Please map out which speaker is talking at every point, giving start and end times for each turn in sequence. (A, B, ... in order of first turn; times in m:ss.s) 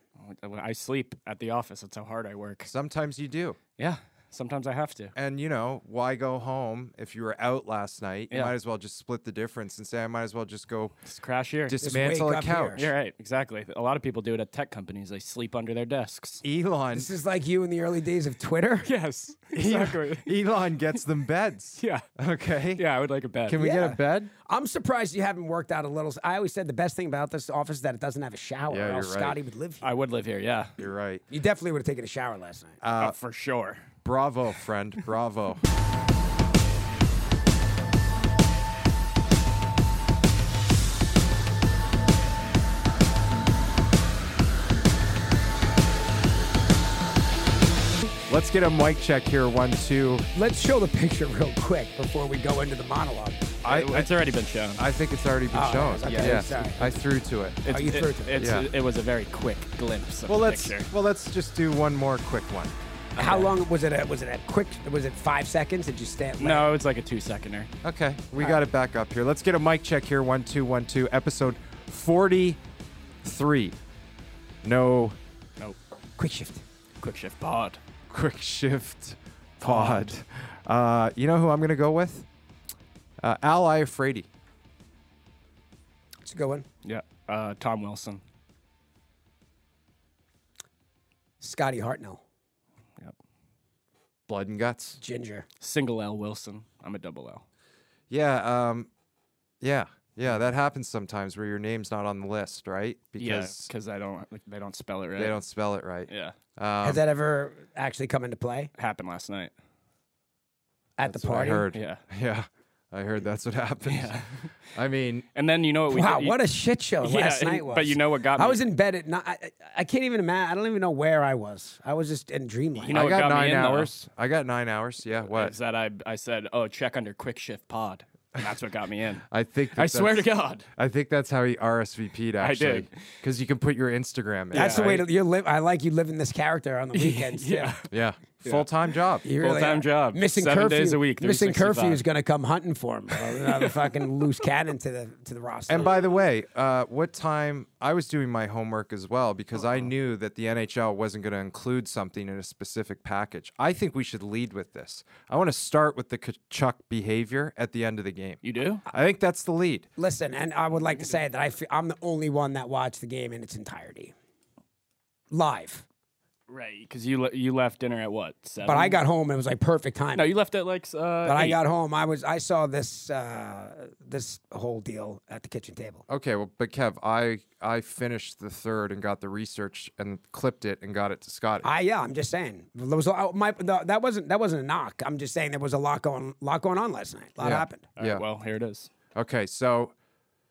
0:00.2-0:02.7 A
0:02.6-0:03.6 B
0:03.8-0:05.1 A
0:05.1-0:10.9 B
0:08.3-0:08.6 A
0:11.0-0:11.8 A
0:11.7-0:12.9 B
0:11.8-0:12.9 C
0:12.8-0:16.4 A
0:16.4-0:17.1 B
0:16.9-0:18.9 C
0:18.8-0:20.3 A
0:19.5-0:22.8 B
0:21.8-0:22.0 A
0:22.7-0:23.6 A
0:23.4-0:24.3 B
0:23.5-0:29.9 C
0:28.7-0:29.4 B
0:29.8-0:30.7 A
0:30.8-0:31.2 B
0:31.3-0:32.8 C
0:32.8-0:33.2 B
0:33.0-0:33.8 A
0:34.0-0:35.6 B
0:48.3-0:50.3 B
0:50.3-0:53.5 C
0:53.6-0:54.8 A
0:53.6-0:54.1 B
0:54.8-0:57.6 B
0:55.5-0:56.9 C
0:56.0-0:56.6 A
0:57.6-1:00.9 A
0:57.7-0:58.4 C
0:58.4-0:58.7 B
1:00.3-1:02.7 B
1:03.2-1:03.5 A
1:03.2-1:06.7 C
1:06.4-1:07.7 A
1:07.8-1:12.6 B
1:13.2-1:13.8 B
1:14.6-1:15.2 B
1:16.2-1:16.6 C
1:17.0-1:17.8 A
1:18.1-1:22.3 B
1:19.6-1:20.1 A
1:23.2-1:24.3 B
1:26.2-1:26.6 C
1:26.8-1:28.2 A
1:31.4-1:32.2 C
1:34.3-1:35.0 B
1:35.0-1:35.4 C
1:35.6-1:37.4 A
1:38.1-1:38.9 B
1:39.6-1:43.7 B
1:43.2-1:45.4 A
1:45.2-1:47.0 B
1:46.1-1:46.3 A
1:46.8-1:48.7 C
1:48.8-1:49.5 A
1:51.0-1:51.7 C
1:51.0-1:54.2 B
1:51.7-1:52.0 A
1:53.8-1:54.6 A
1:54.7-1:55.2 B
1:55.3-1:56.4 A
1:55.9-2:03.0 C
1:57.0-1:58.6 A
2:02.8-2:03.9 A
2:02.9-2:05.6 B
2:05.3-2:10.6 A
2:09.3-2:14.9 B
2:12.4-2:12.9 A
2:14.5-2:15.1 A
2:14.5-2:17.8 C
2:16.9-2:17.9 A
2:17.9-2:19.3 B
2:19.2-2:22.0 A
2:19.2-2:25.9 C
2:23.2-2:24.0 A
2:25.7-2:39.8 B
2:38.4-2:38.8 A
2:40.0-2:44.1 C
2:45.3-2:45.8 C
2:46.5-2:49.0 A
2:48.6-2:50.3 C
2:50.1-2:51.6 A
2:51.2-2:56.0 C
2:56.1-3:01.7 B
3:01.6-3:07.9 C
3:07.4-3:08.2 B
3:07.9-3:08.9 A
3:09.1-3:09.9 B